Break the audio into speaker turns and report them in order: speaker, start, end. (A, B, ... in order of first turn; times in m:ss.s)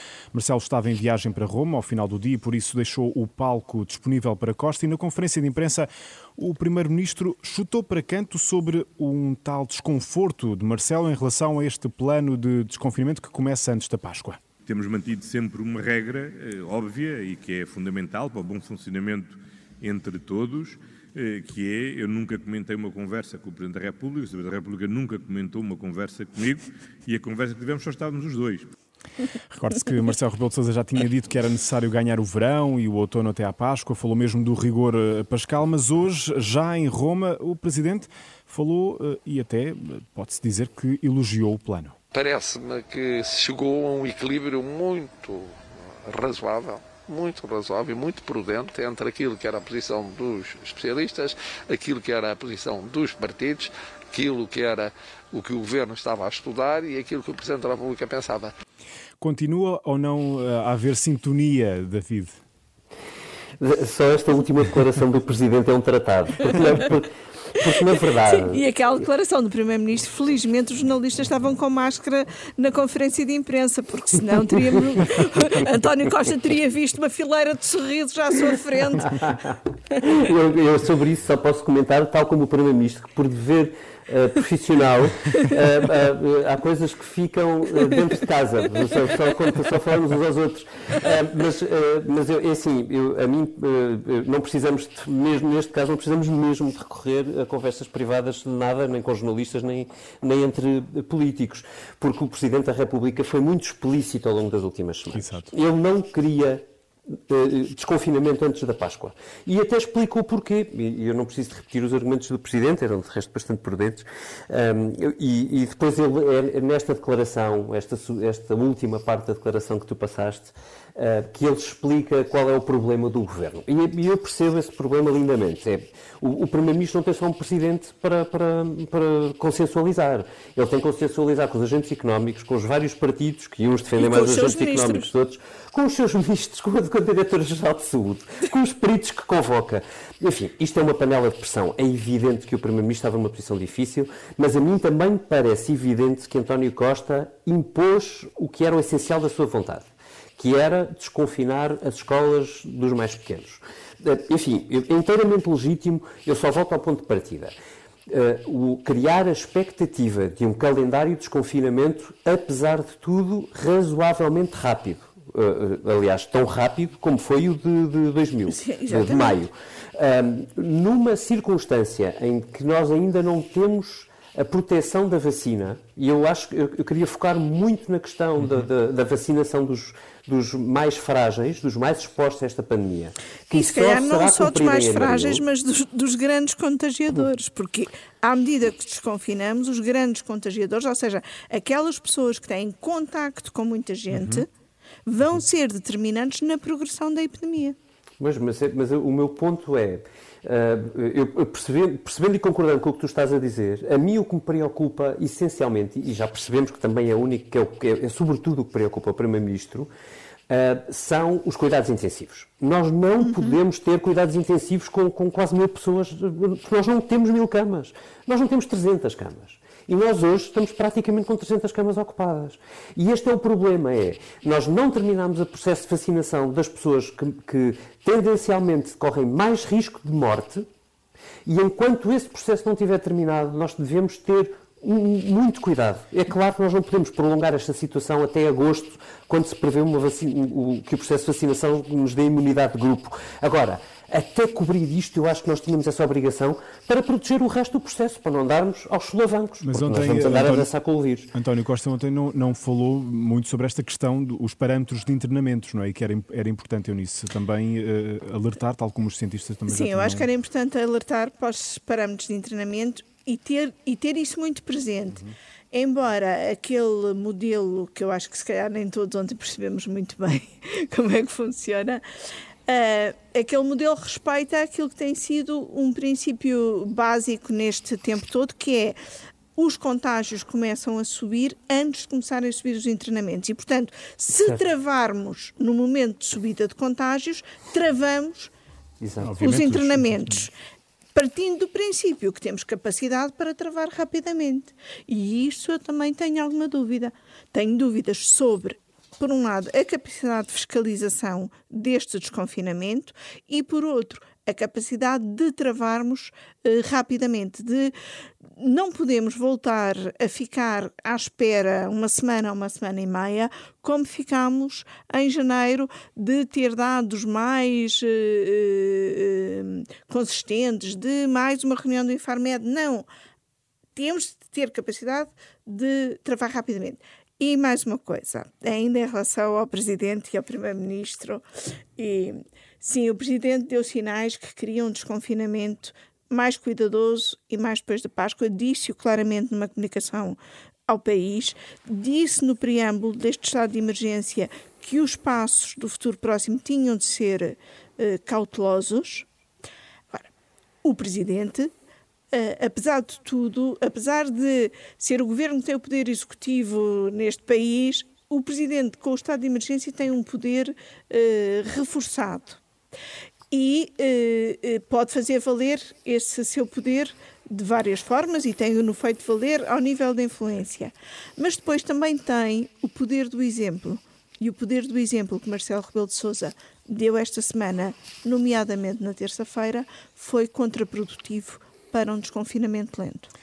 0:00.3-0:14.4 A
0:14.7-0:28.7 B
0:29.5-0:42.0 A
0:42.1-0:58.5 C
0:59.2-1:02.4 A
1:03.6-1:08.6 D
1:08.2-1:19.2 E
1:19.0-1:46.6 D
1:45.1-1:45.5 A
1:47.3-2:29.9 D
2:14.0-2:15.1 E
2:30.4-2:37.5 D
2:38.1-3:05.4 D
2:48.5-2:49.4 E
3:03.5-3:14.5 E
3:14.1-3:14.4 A
3:15.0-3:17.8 E
3:18.2-3:29.9 D
3:30.5-3:50.6 D
3:33.2-3:33.6 E
3:51.4-4:11.3 D
4:09.6-4:10.7 A
4:11.3-4:20.3 A
4:19.7-4:25.2 E
4:25.7-4:32.0 E
4:32.7-4:39.0 E
4:39.6-4:48.5 E
4:49.0-4:49.3 D
4:49.2-4:50.4 A
4:49.4-4:50.5 E
4:51.1-5:07.9 E
5:08.6-5:23.1 E
5:24.0-5:31.4 E
5:32.0-5:49.3 E
5:50.8-5:51.7 E
5:52.3-6:02.6 E
6:03.5-6:23.3 E